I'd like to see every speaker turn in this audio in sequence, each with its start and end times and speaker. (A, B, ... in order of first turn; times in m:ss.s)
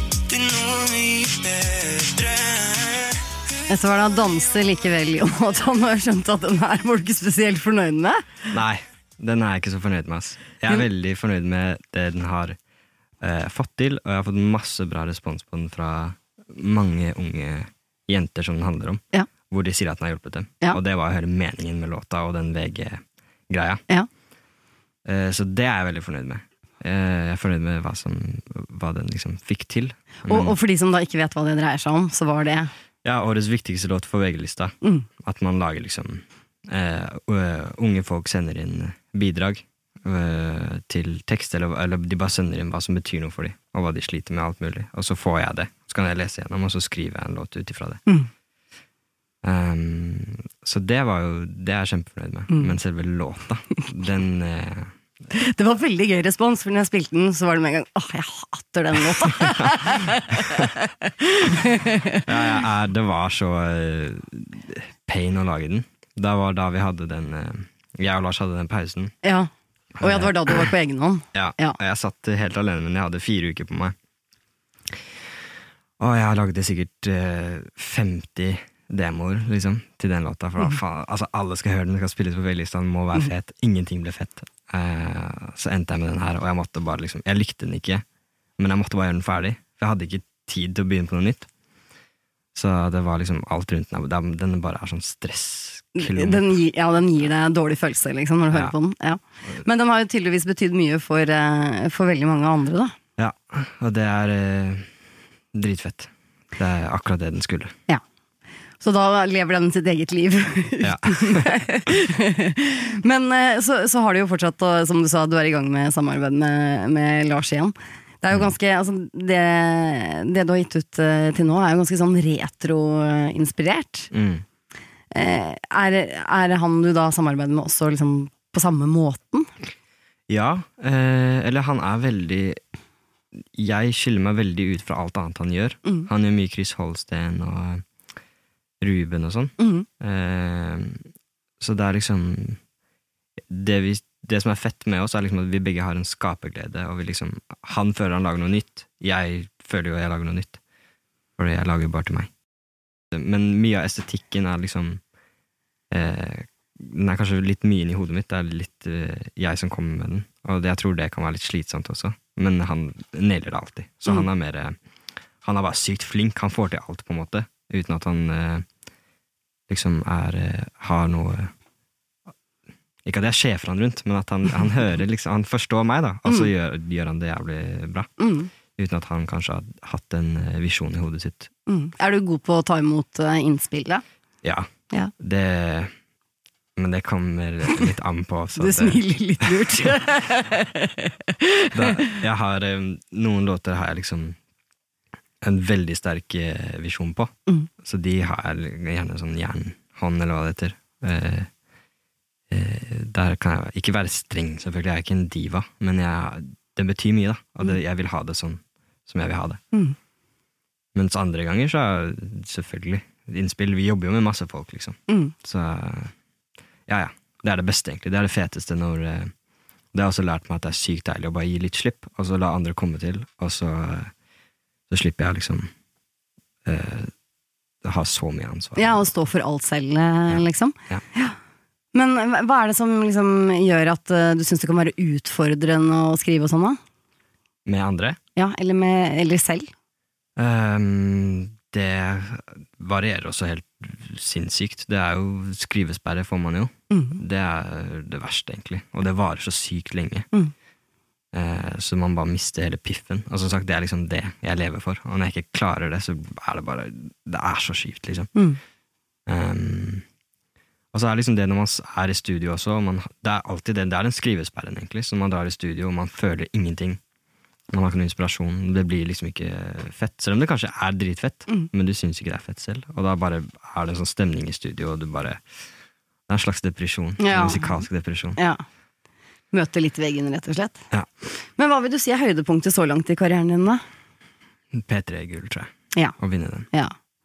0:00.3-0:03.2 A
0:03.7-0:08.2 B
0:08.5-0:12.6 C
0:13.2-0:23.8 C
0:25.0-0:30.6 C
0:30.3-0:32.7 B
0:33.0-0:48.0 C
0:34.8-0:35.1 B
0:49.4-0:54.9 C
0:52.5-0:52.7 B
0:55.3-1:02.5 B
1:02.2-1:09.1 C
1:09.2-1:09.5 B
1:10.0-1:10.7 C
1:10.0-1:11.8 B
1:11.3-1:13.9 C
1:16.0-1:28.0 C
1:28.6-1:31.5 C
1:32.5-1:36.6 C
1:36.0-1:42.9 B
1:43.2-1:44.9 C
1:45.5-1:47.7 C
1:48.8-2:04.1 B
1:50.8-1:51.6 C
2:04.1-2:04.4 C
2:05.1-2:09.5 B
2:10.3-2:12.6 C
2:13.5-2:17.8 C
2:18.8-2:21.0 C
2:19.6-2:19.9 B
2:21.6-2:22.6 C
2:23.5-2:30.6 C
2:31.4-2:32.3 C
2:33.1-2:35.0 C
2:35.9-2:44.8 C
2:45.4-2:48.6 C
2:49.7-2:51.5 C
2:53.0-2:58.1 C
2:58.2-2:58.5 B
2:58.8-3:01.5 C
3:01.7-3:04.0 B
3:04.4-3:05.9 C
3:06.8-3:09.9 C
3:08.6-3:12.2 B
3:11.7-3:14.4 C
3:15.4-3:21.5 C
3:22.5-3:29.6 C
3:30.9-3:36.1 C
3:35.1-3:35.3 B
3:36.9-3:39.3 C
3:39.9-3:44.1 C
3:44.9-3:45.7 C
3:46.6-3:47.1 C
3:47.8-3:49.0 C
3:48.8-3:51.4 B
3:50.3-3:51.0 C
3:51.9-3:56.8 B
3:57.6-3:58.2 C
3:58.4-3:59.7 B
4:00.4-4:10.3 C
4:06.9-4:07.2 B
4:11.3-4:18.3 C
4:18.3-4:18.6 B
4:19.3-4:20.0 C
4:20.9-4:27.0 C
4:27.7-4:35.4 C
4:36.3-4:38.4 C
4:37.2-4:37.8 B
4:38.4-4:38.6 B
4:39.5-4:40.8 B
4:41.6-4:43.8 B
4:44.7-4:46.7 C